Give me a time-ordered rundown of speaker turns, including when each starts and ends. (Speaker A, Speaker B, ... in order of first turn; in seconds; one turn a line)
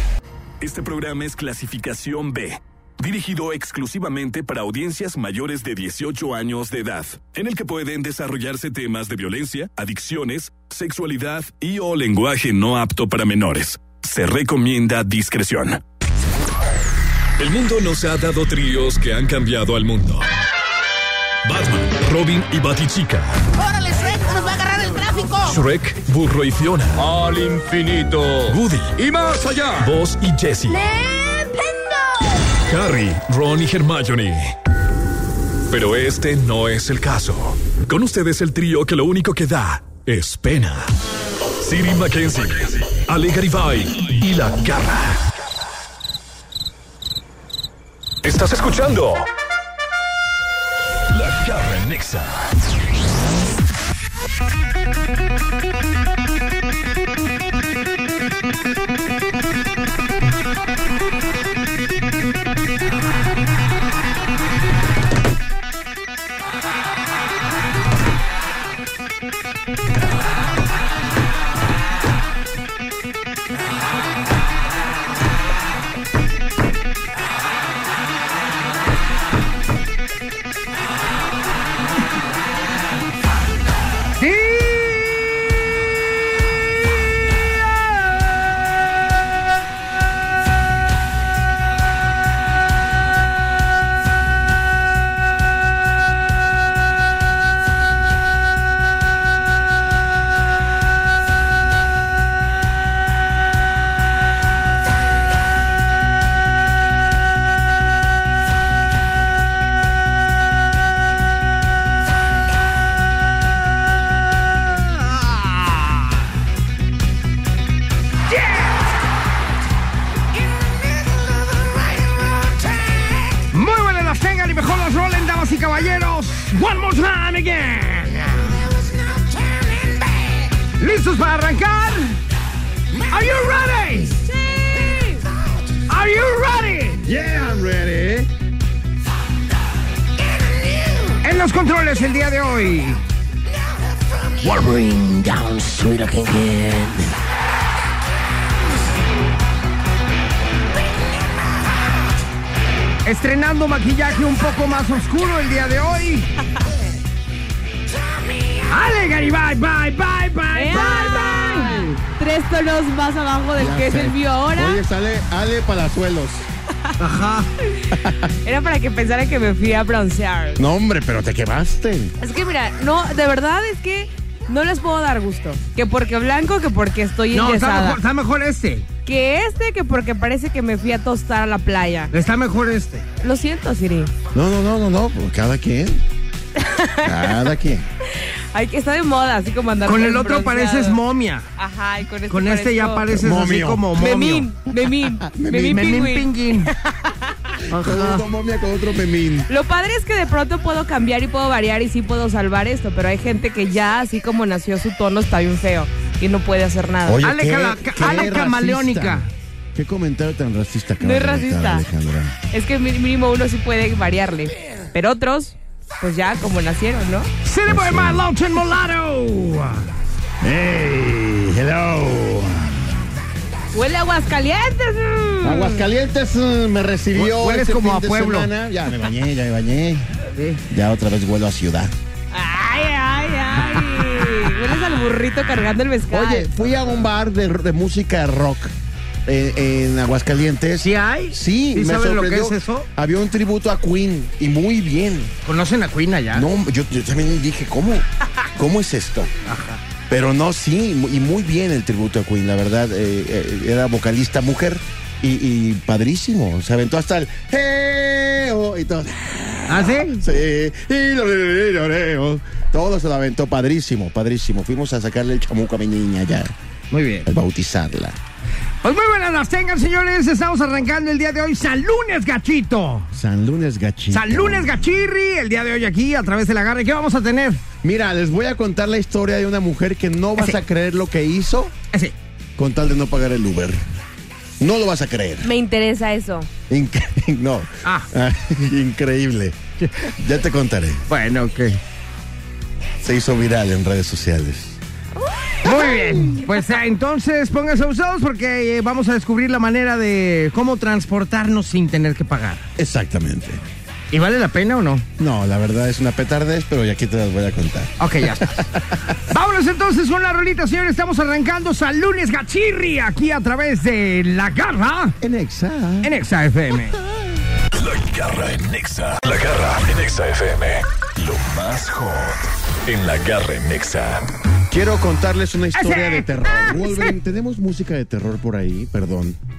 Speaker A: 0.6-15.8
Speaker A: 17.4-20.3
Speaker A: 21.4-23.4
Speaker B: 23.6-25.6
Speaker A: 25.5-27.2
Speaker A: 28.4-29.1
Speaker A: 29.7-30.9
Speaker B: 30.7-32.5
Speaker A: 32.6-34.5
Speaker A: 35.7-40.9
Speaker A: 41.6-45.3
Speaker A: 48.2-49.2
Speaker A: 51.1-52.5
Speaker C: 84.2-85.2
Speaker C: 114.4-116.1
Speaker C: 118.3-118.8
Speaker C: 123.3-128.7
Speaker C: 129.2-132.2
Speaker C: 133.0-134.2
Speaker D: 134.3-135.2
Speaker C: 135.9-137.0
Speaker E: 137.0-138.3
Speaker C: 141.2-143.0
Speaker C: 144.4-147.1
Speaker C: 153.0-156.3
Speaker C: 158.7-161.9
Speaker D: 160.5-164.8
Speaker E: 163.6-166.5
Speaker C: 167.0-167.5
Speaker E: 167.9-168.3
Speaker D: 168.4-170.6
Speaker E: 170.6-172.1
Speaker D: 172.2-178.0
Speaker C: 177.3-178.8
Speaker D: 179.0-182.1
Speaker C: 182.1-183.1
Speaker D: 183.2-184.1
Speaker E: 184.3-186.0
Speaker D: 186.6-187.4
Speaker E: 187.0-187.8
Speaker D: 188.2-191.0
Speaker C: 189.8-191.5
Speaker D: 191.6-193.2
Speaker C: 192.3-194.5
Speaker E: 193.2-193.9
Speaker D: 194.0-197.3
Speaker E: 195.2-195.9
Speaker C: 195.6-196.7
Speaker C: 197.7-198.2
Speaker E: 197.7-199.5
Speaker D: 199.5-207.2
Speaker E: 207.0-212.4
Speaker C: 207.2-209.3
Speaker D: 211.0-211.8
Speaker D: 212.5-217.3
Speaker C: 217.4-219.9
Speaker E: 217.7-218.2
Speaker E: 220.4-223.0
Speaker D: 223.7-225.8
Speaker E: 225.4-230.1
Speaker C: 227.1-228.5
Speaker C: 230.3-230.6
Speaker E: 230.7-231.9
Speaker D: 232.3-236.5
Speaker E: 236.1-238.7
Speaker E: 239.2-245.3
Speaker C: 240.8-242.9
Speaker C: 245.4-246.5
Speaker E: 246.3-249.3
Speaker C: 249.4-249.8
Speaker E: 250.1-266.5
Speaker C: 259.7-260.2
Speaker C: 266.9-267.3
Speaker E: 267.2-268.2
Speaker C: 268.8-273.1
Speaker E: 273.1-274.8
Speaker C: 274.1-277.6
Speaker E: 277.8-281.7
Speaker E: 282.6-283.8
Speaker E: 284.6-285.5
Speaker D: 285.4-286.5
Speaker E: 286.7-291.0
Speaker C: 287.8-288.1
Speaker C: 289.8-290.1
Speaker C: 291.1-291.8
Speaker E: 293.0-294.8
Speaker C: 295.6-302.7
Speaker D: 295.6-296.3
Speaker E: 302.8-303.6
Speaker C: 304.1-305.1
Speaker E: 305.2-309.0
Speaker C: 308.0-308.6
Speaker C: 309.2-315.1
Speaker E: 315.2-316.1
Speaker C: 316.0-317.0
Speaker A: 317.7-324.2
Speaker E: 324.7-329.4
Speaker C: 325.7-327.1